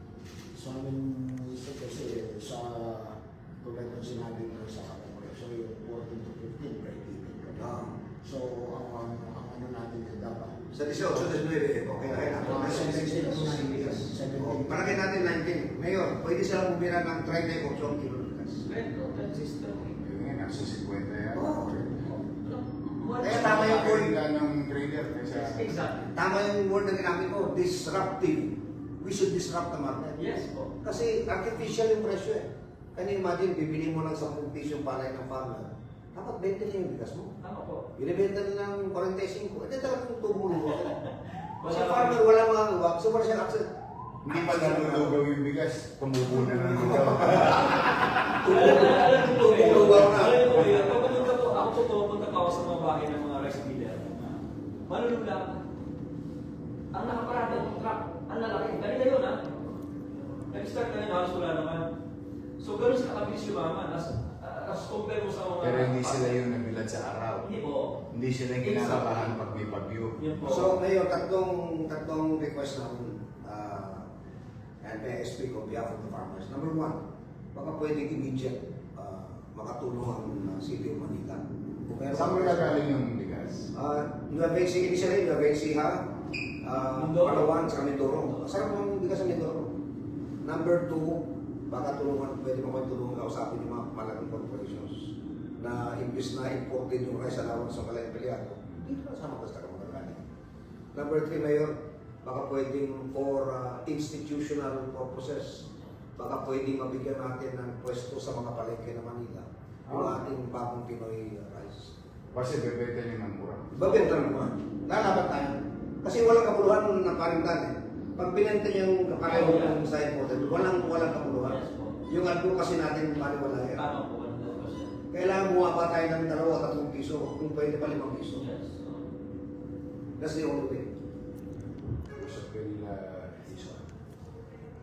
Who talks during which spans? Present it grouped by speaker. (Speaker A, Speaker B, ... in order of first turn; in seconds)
Speaker A: 0.5-11.3, 12.2-15.0
Speaker B: 7.5-7.9, 10.7-18.7, 21.3-21.7, 23.2-24.1, 26.1-37.3, 38.0-41.0, 41.7-43.7, 44.3-45.2, 46.4-51.3, 70.5-74.1, 74.8-77.0, 77.5-82.8, 83.7-86.0, 86.6-89.7, 90.4-100.2, 100.9-105.7, 106.2-111.9, 113.8-123.8, 125.1-128.4, 130.2-130.9
Speaker C: 18.6-19.9, 22.4-24.0, 25.3-26.1, 30.2-30.7, 37.4-37.9, 40.7-42.2, 48.5-54.3, 54.9-55.7, 56.9-59.8, 60.5-61.9, 62.6-66.4, 67.4-68.0, 68.6-69.4, 70.2-70.8, 87.0-88.4, 113.9-114.2, 119.2-119.8, 121.3-122.0, 123.7-124.9, 128.3-129.1
Speaker D: 20.0-22.2, 23.2-25.7, 44.2-48.4, 50.0-50.6, 65.6-67.5, 68.1-70.8, 82.1-83.7, 109.9-110.2, 112.3-114.0, 132.2-133.9